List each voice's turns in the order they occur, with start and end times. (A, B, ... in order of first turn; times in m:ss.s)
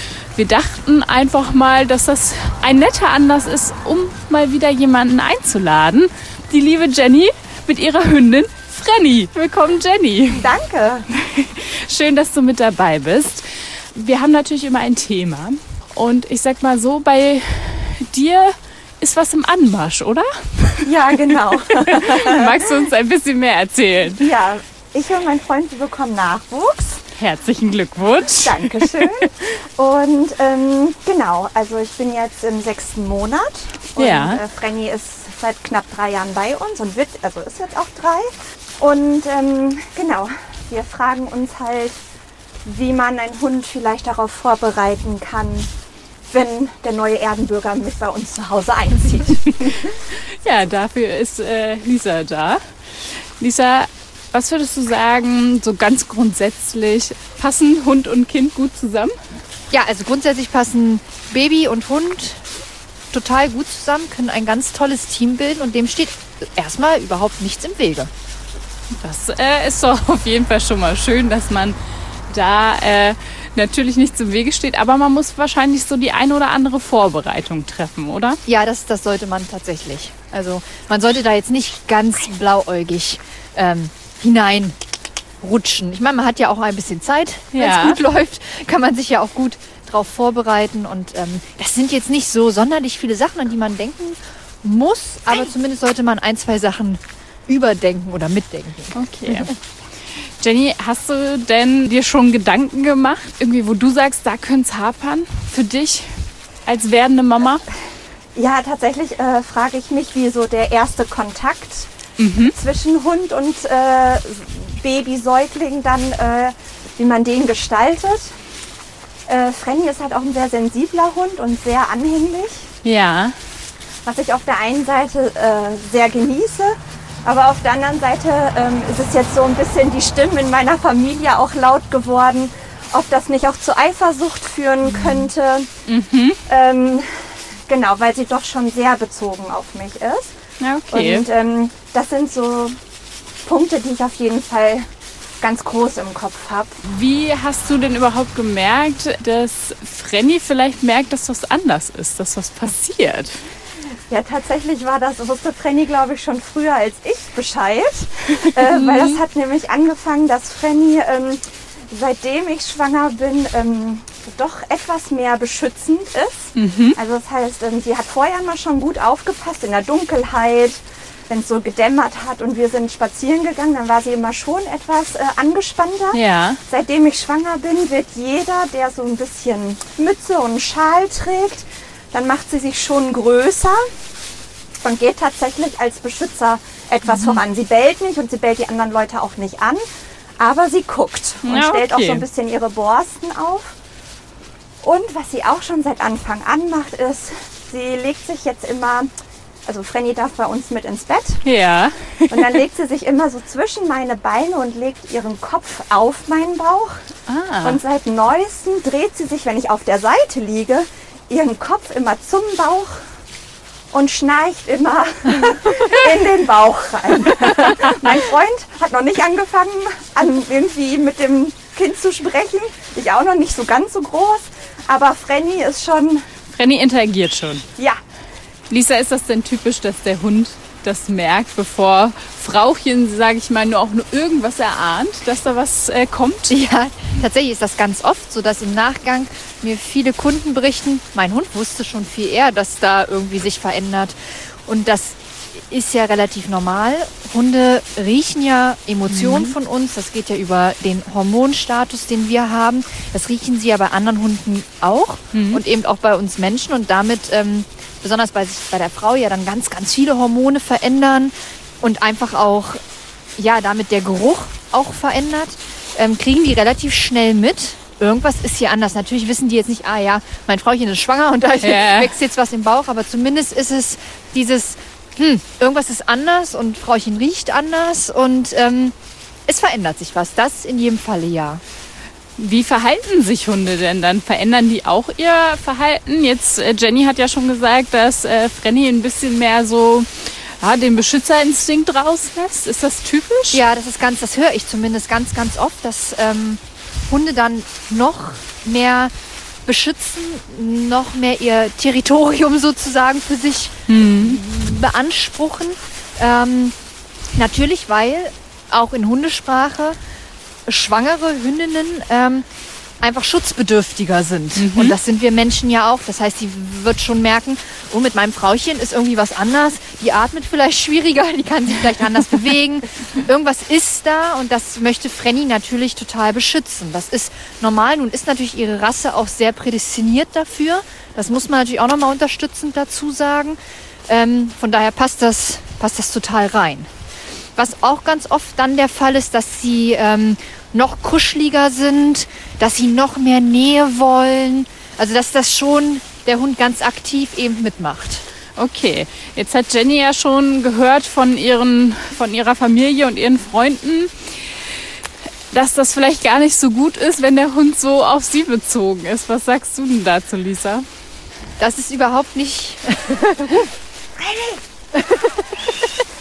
0:00.3-0:10.5 A
0:10.4-0:11.1 B
0:11.2-0:20.9 A
0:20.8-0:22.5 B
0:21.8-0:24.2 A
0:24.1-0:27.0 B
0:27.2-0:29.3 A
0:28.3-0:42.0 B
0:34.0-0:34.4 A
0:42.6-0:45.7 B
0:46.3-0:49.8 B
0:50.1-0:59.2 A
0:59.7-1:02.4 C
1:03.1-1:08.1 C
1:09.0-1:11.8 A
1:12.3-1:18.4 A
1:18.5-1:24.8 C
1:25.4-1:39.5 C
1:27.5-1:28.0 A
1:38.9-1:39.6 A
1:40.1-1:47.6 A
1:48.4-1:51.9 B
1:52.2-1:52.5 A
1:52.4-1:58.4 B
1:59.3-2:02.7 B
2:02.8-2:03.4 A
2:04.0-2:15.7 B
2:15.9-2:16.4 A
2:16.5-2:20.4 B
2:20.6-2:21.3 A
2:20.9-2:22.8 B
2:23.4-2:24.9 B
2:25.4-2:26.8 B
2:26.8-2:33.4 A
2:34.1-3:03.8 B
2:38.6-2:39.2 A
2:46.6-2:47.0 A
2:56.1-2:56.6 A
3:04.8-3:09.8 B
3:07.1-3:07.4 A
3:10.4-3:13.8 B
3:11.4-3:12.2 A
3:14.8-3:19.1 B
3:19.7-3:21.4 B
3:21.4-3:22.6 A
3:22.3-3:27.0 B
3:27.3-3:27.8 A
3:27.6-3:33.0 B
3:33.9-3:46.3 B
3:46.5-3:47.6 A
3:48.7-3:56.6 A
3:56.5-4:22.8 C
4:09.1-4:09.6 A
4:15.3-4:15.6 A
4:23.4-4:39.0 C
4:31.6-4:32.1 A
4:39.5-4:41.6 C
4:42.4-4:53.6 A
4:53.5-4:59.1 C
4:59.6-5:06.8 C
5:03.9-5:04.4 A
5:07.4-5:10.0 C
5:10.7-5:12.5 C
5:13.0-5:36.9 C
5:14.6-5:15.0 A
5:37.6-5:48.2 C
5:48.6-5:54.6 A
5:55.5-6:00.8 A
6:01.6-6:03.7 C
6:04.2-6:04.6 B
6:04.9-6:05.7 C